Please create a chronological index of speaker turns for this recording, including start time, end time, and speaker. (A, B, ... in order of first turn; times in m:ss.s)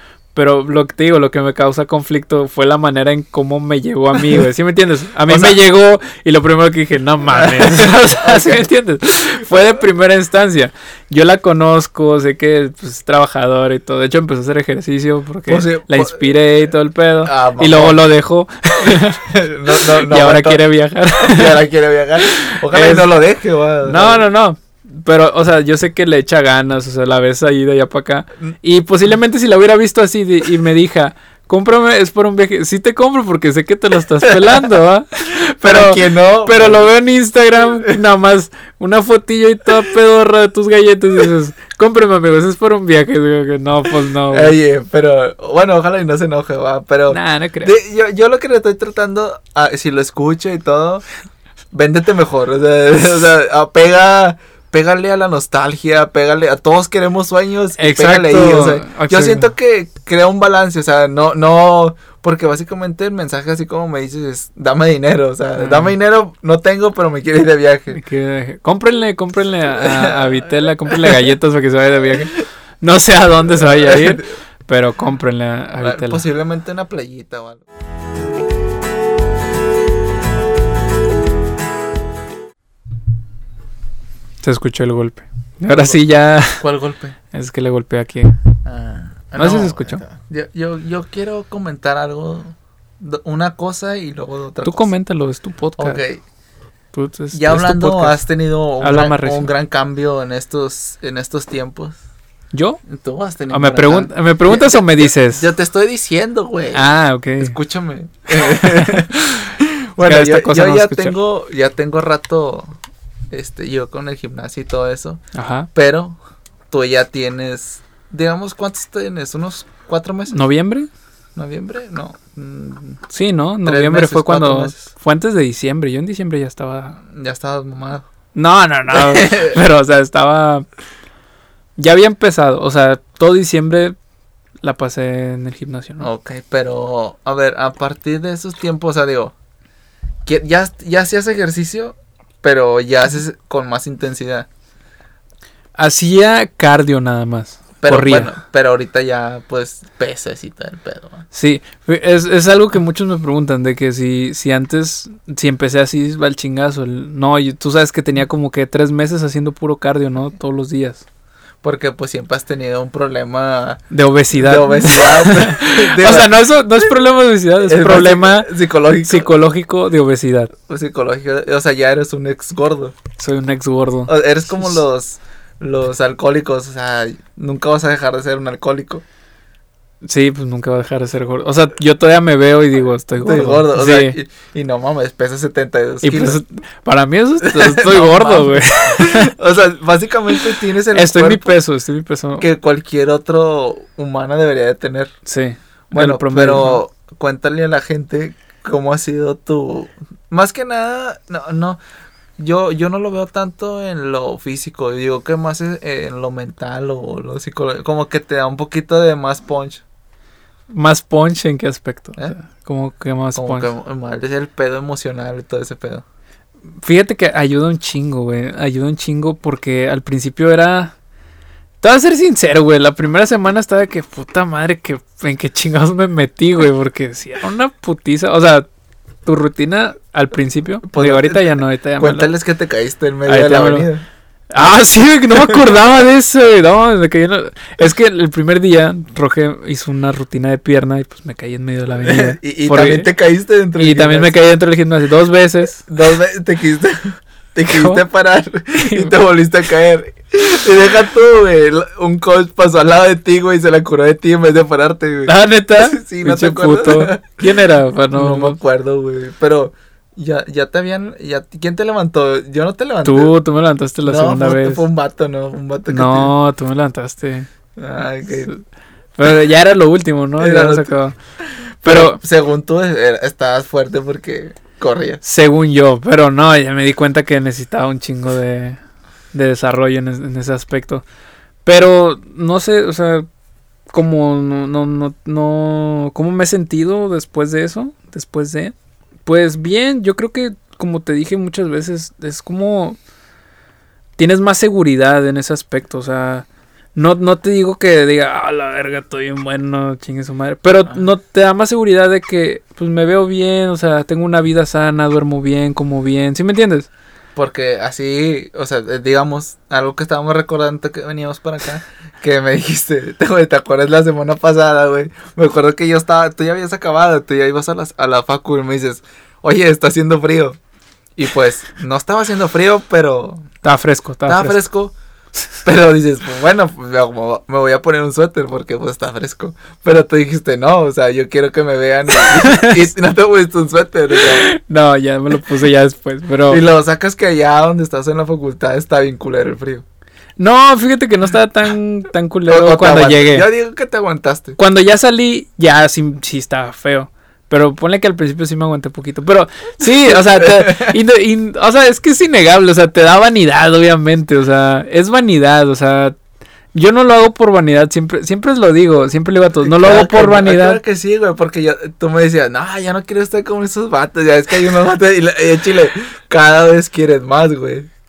0:00.4-0:21.6 A
0:05.3-0:05.6 B
0:07.3-0:08.7 B
0:15.5-0:16.3 B
0:17.2-0:18.0 B
0:18.9-0:20.6 B
0:21.2-0:24.3 B
0:22.3-0:23.1 A
0:23.8-0:44.6 A
0:34.2-0:34.6 B
0:35.6-0:36.9 B
0:44.3-0:51.0 B
0:47.1-0:47.8 A
0:51.7-1:08.0 B
0:57.8-0:59.5 A
1:05.6-1:06.0 A
1:07.9-1:16.2 A
1:09.8-1:11.3 B
1:13.5-1:14.3 B
1:15.8-1:17.6 B
1:24.4-1:26.6 A
1:25.7-1:26.0 B
1:26.6-1:27.2 B
1:27.3-1:28.4 A
1:28.6-1:34.9 B
1:29.4-1:30.0 A
1:34.6-1:36.0 A
1:35.8-1:36.2 B
1:36.9-1:38.2 A
1:37.3-1:42.0 B
1:38.8-1:39.5 A
1:42.5-1:42.8 A
1:42.9-1:52.8 B
1:43.5-1:45.5 A
1:46.7-1:47.6 A
1:48.3-1:51.2 A
1:53.3-1:55.2 B
1:55.3-1:55.7 A
1:55.7-1:56.2 B
1:56.7-2:00.4 B
2:00.3-2:00.9 A
2:01.4-2:03.0 B
2:03.1-2:07.0 A
2:03.6-2:04.9 B
2:07.1-2:08.1 B
2:08.3-2:10.7 A
2:08.9-2:09.6 B
2:11.8-2:14.0 A
2:14.6-2:16.1 A
2:16.0-2:19.3 B
2:20.3-2:24.5 B
2:25.8-2:28.3 A
2:27.8-2:31.2 B
2:31.3-2:41.0 A
2:41.6-2:43.8 B
2:43.9-2:48.5 A
2:44.3-2:46.4 B
2:47.7-2:49.3 B
2:49.0-2:50.5 A
2:50.7-2:53.0 B
2:53.2-2:54.8 A
2:54.1-2:59.0 B
3:00.0-3:04.2 A
3:03.2-3:06.4 B
3:06.0-3:09.3 A
3:07.4-3:11.6 B
3:10.9-3:12.5 A
3:12.4-3:15.1 B
3:15.3-3:16.8 A
3:15.9-3:21.8 B
3:22.4-3:29.8 B
3:30.7-3:33.7 A
3:33.4-3:36.0 B
3:36.8-3:40.9 A
3:41.8-3:48.7 A
3:49.3-3:52.3 A
3:50.9-3:54.0 B
3:53.3-3:53.9 A
3:54.5-4:03.1 A
4:02.0-4:04.5 B
4:03.8-4:05.9 A
4:05.9-4:17.6 B
4:07.7-4:08.0 A
4:08.7-4:09.2 A
4:15.3-4:18.6 A
4:18.1-4:23.4 B
4:23.0-4:24.8 A
4:24.0-4:26.3 B
4:25.9-4:27.5 A
4:27.8-4:28.5 B
4:29.2-4:31.2 A
4:30.4-4:30.9 B
4:31.8-4:35.2 B
4:31.8-4:32.2 A
4:35.2-4:38.8 A
4:39.3-4:41.0 A
4:41.6-4:43.3 A
4:43.9-4:48.7 A
4:49.3-4:53.0 A
4:54.2-5:06.9 A
5:07.4-5:20.6 B
5:21.2-5:23.5 B
5:23.6-5:24.6 A
5:24.3-5:24.9 B
5:25.6-5:34.5 B
5:32.2-5:32.9 A
5:34.1-5:36.6 A
5:36.5-5:39.8 B
5:40.4-5:43.5 A
5:42.5-5:44.6 B
5:44.6-5:56.2 A
5:50.1-5:51.0 B
5:56.7-6:00.8 A
5:59.6-6:07.9 B